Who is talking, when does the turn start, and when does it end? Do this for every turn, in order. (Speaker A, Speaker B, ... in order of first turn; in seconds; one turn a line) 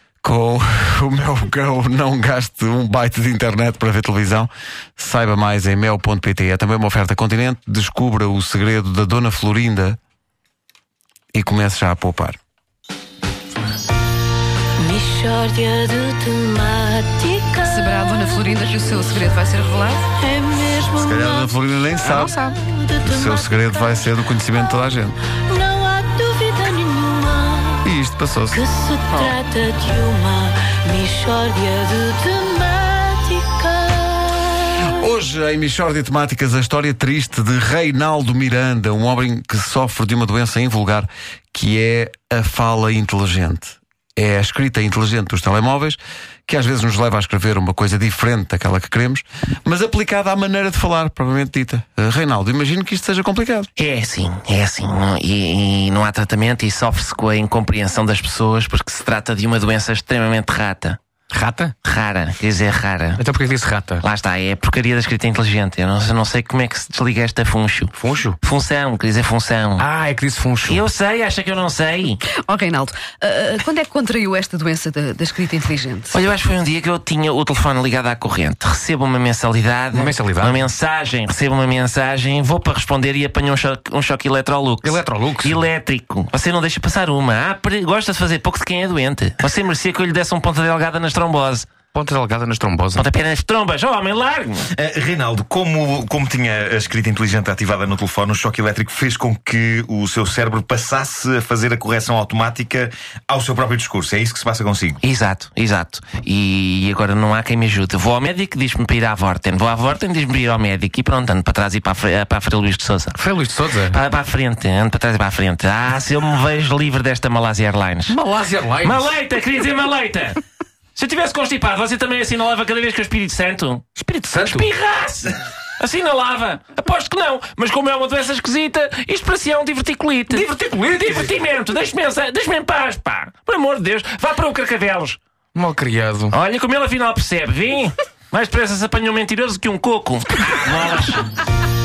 Speaker A: 0.2-10.0
Speaker A: 11.3-12.4
Speaker B: 14.8-18.6
Speaker C: 17.6-20.1
Speaker B: 20.1-24.1
Speaker A: 21.0-22.5
Speaker A: 23.0-25.2
Speaker B: 25.4-27.9
Speaker A: 27.8-28.6
Speaker B: 28.5-34.4
Speaker A: 35.0-53.7
Speaker D: 53.8-61.0
Speaker E: 61.3-61.8
Speaker D: 61.8-63.2
Speaker E: 63.2-64.0
Speaker D: 64.0-69.8
Speaker E: 68.0-68.4
Speaker E: 69.8-70.8
Speaker D: 70.6-72.2
Speaker C: 72.5-76.1
Speaker D: 76.1-91.7
Speaker E: 79.9-80.7
Speaker E: 84.8-85.6
Speaker E: 91.9-93.0
Speaker D: 93.0-94.7
Speaker F: 94.7-105.0
Speaker D: 105.0-113.2
Speaker E: 113.2-114.0
Speaker D: 113.9-118.2
Speaker E: 118.1-119.2
Speaker D: 118.8-120.4
Speaker D: 121.0-123.9
Speaker E: 124.0-124.7
Speaker D: 124.5-135.2
Speaker E: 130.3-131.3
Speaker E: 135.6-136.4
Speaker D: 136.3-141.3